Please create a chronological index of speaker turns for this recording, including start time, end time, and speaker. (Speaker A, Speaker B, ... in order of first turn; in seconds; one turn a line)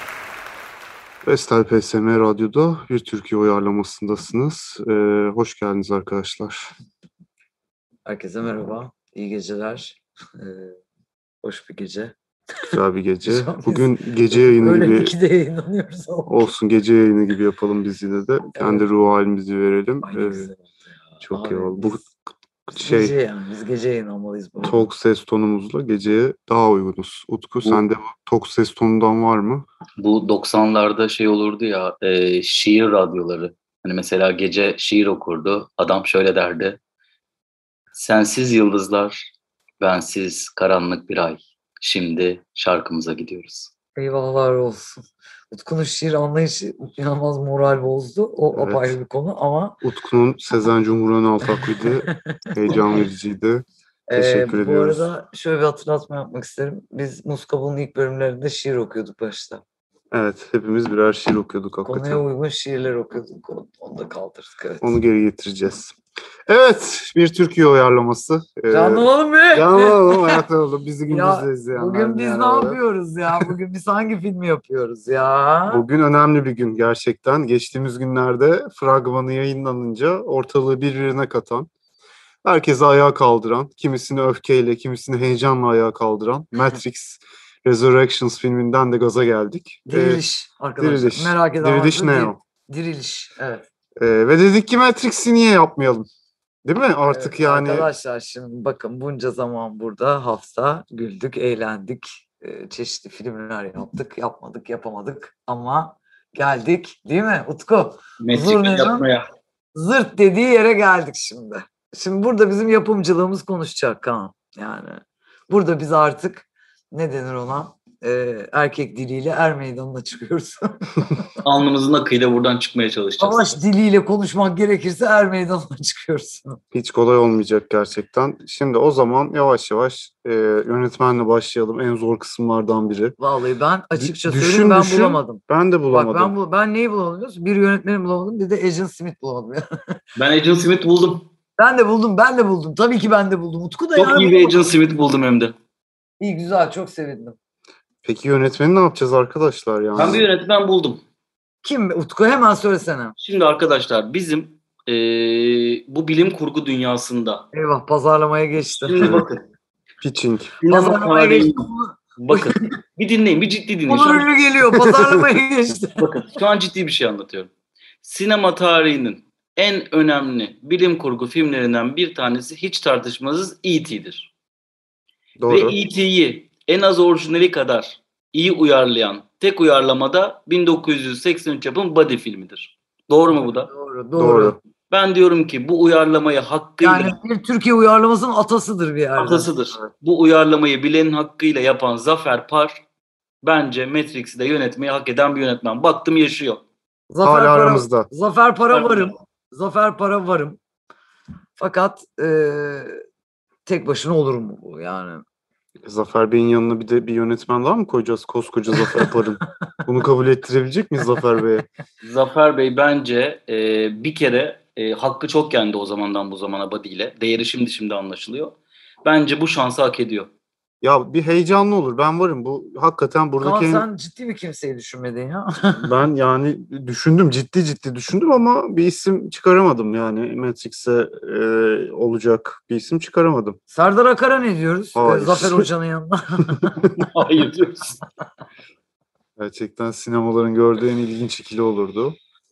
Speaker A: 1.2-6.7
Speaker B: 8.1-10.8
Speaker B: 11.4-12.1
Speaker B: 12.7-16.5
Speaker A: 12.7-15.1
Speaker A: 16.3-20.5
Speaker B: 18.5-18.9
Speaker B: 20.0-20.6
Speaker B: 21.2-22.0
Speaker A: 21.2-22.1
Speaker A: 22.7-23.1
Speaker B: 22.8-24.8
Speaker A: 24.6-29.6
Speaker C: 30.0-36.8
Speaker C: 37.9-39.3
Speaker C: 39.8-43.7
Speaker B: 44.0-49.8
Speaker A: 48.5-48.9
Speaker A: 49.8-55.1
Speaker B: 51.5-53.0
Speaker B: 54.1-59.6
Speaker A: 60.1-62.2
Speaker B: 61.9-64.9
Speaker A: 64.8-65.9
Speaker A: 66.5-72.8
Speaker B: 68.7-70.4
Speaker B: 71.1-75.8
Speaker A: 75.7-81.7
Speaker A: 82.4-90.2
Speaker B: 89.9-93.6
Speaker A: 90.8-92.4
Speaker A: 94.0-96.1
Speaker A: 96.6-97.9
Speaker B: 97.1-109.0
Speaker C: 108.2-109.2
Speaker B: 109.7-121.0
Speaker C: 121.4-123.5
Speaker B: 123.2-126.6
Speaker A: 126.7-133.2
Speaker B: 133.2-139.6
Speaker A: 134.0-136.3
Speaker C: 140.2-141.3
Speaker B: 141.6-144.6
Speaker C: 143.9-145.5
Speaker B: 146.2-147.3
Speaker A: 148.0-150.2
Speaker C: 149.9-151.0
Speaker B: 151.6-153.1
Speaker C: 153.2-157.4
Speaker B: 157.5-159.1
Speaker C: 158.8-159.4
Speaker A: 159.0-159.2
Speaker A: 160.0-160.6
Speaker C: 160.6-164.3
Speaker B: 160.7-162.5
Speaker B: 163.9-166.0
Speaker A: 164.8-165.4
Speaker C: 166.0-167.5
Speaker C: 168.0-174.3
Speaker A: 175.4-175.8
Speaker C: 175.5-183.7
Speaker B: 183.3-184.6
Speaker A: 184.2-184.6
Speaker C: 184.9-187.1
Speaker B: 186.8-189.5
Speaker C: 189.2-192.8
Speaker C: 193.4-196.6
Speaker B: 197.1-200.6
Speaker A: 197.2-198.1
Speaker C: 198.7-199.1
Speaker B: 201.6-203.0
Speaker B: 203.7-205.2
Speaker A: 205.8-211.6
Speaker C: 212.0-220.3
Speaker A: 220.8-223.8
Speaker B: 223.4-225.9
Speaker A: 225.8-233.6
Speaker B: 233.7-236.8
Speaker A: 234.9-235.7
Speaker C: 237.0-238.0
Speaker A: 239.4-242.2